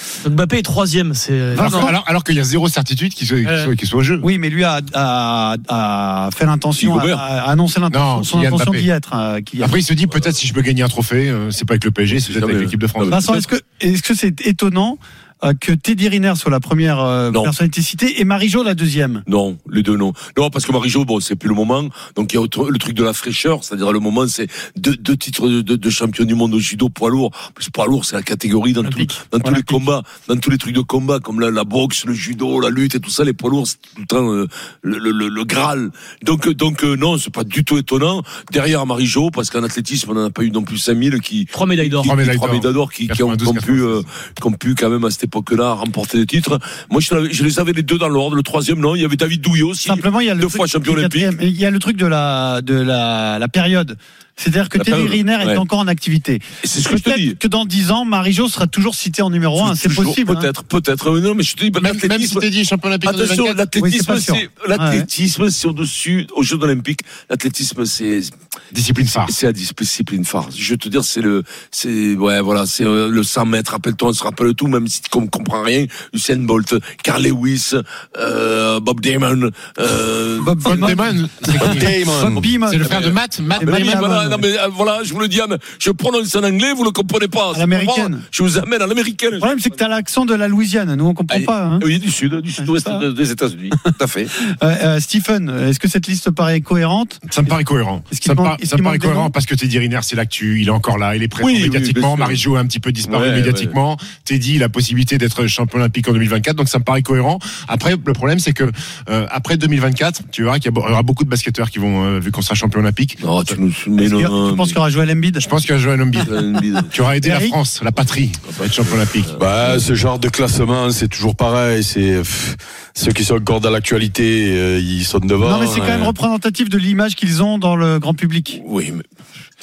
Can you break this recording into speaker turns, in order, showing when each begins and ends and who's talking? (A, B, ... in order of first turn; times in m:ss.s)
0:00.2-0:01.9 A
0:01.5-0:02.0 B
0:01.6-0:04.2 C
0:03.4-0:03.7 A
0:04.2-0:09.8 B
0:06.8-0:07.2 D
0:07.9-0:08.9 C
0:09.6-0:13.2 C
0:12.2-0:13.4 D
0:13.1-0:19.2 B
0:19.2-0:51.3 D
0:28.8-0:29.6 A
0:41.5-0:42.1 A
0:42.0-0:44.0 C
0:49.8-1:00.5 B
0:54.8-0:55.6 D
0:56.6-0:57.4 D
0:59.6-1:02.5 D
1:01.8-1:03.6 C
1:03.0-1:08.3 D
1:03.8-1:05.1 B
1:08.7-1:09.3 C
1:09.1-1:21.8 D
1:20.4-1:24.4 B
1:20.6-1:24.0 C
1:21.6-1:22.4 E
1:22.4-1:29.8 D
1:27.5-1:28.2 B
1:29.4-1:31.8 B
1:31.3-1:34.3 D
1:32.6-1:33.0 B
1:33.8-1:37.5 B
1:37.3-1:53.2 C
1:38.1-1:39.3 B
1:41.4-1:42.4 D
1:43.0-1:43.7 D
1:53.2-1:54.8 D
1:54.0-1:55.5 B
1:55.4-1:56.4 C
1:56.2-1:57.1 D
1:56.9-1:59.3 C
1:57.2-1:57.6 B
1:58.0-1:59.9 D
1:59.3-2:06.1 E
2:05.4-2:08.6 B
2:08.5-2:09.0 D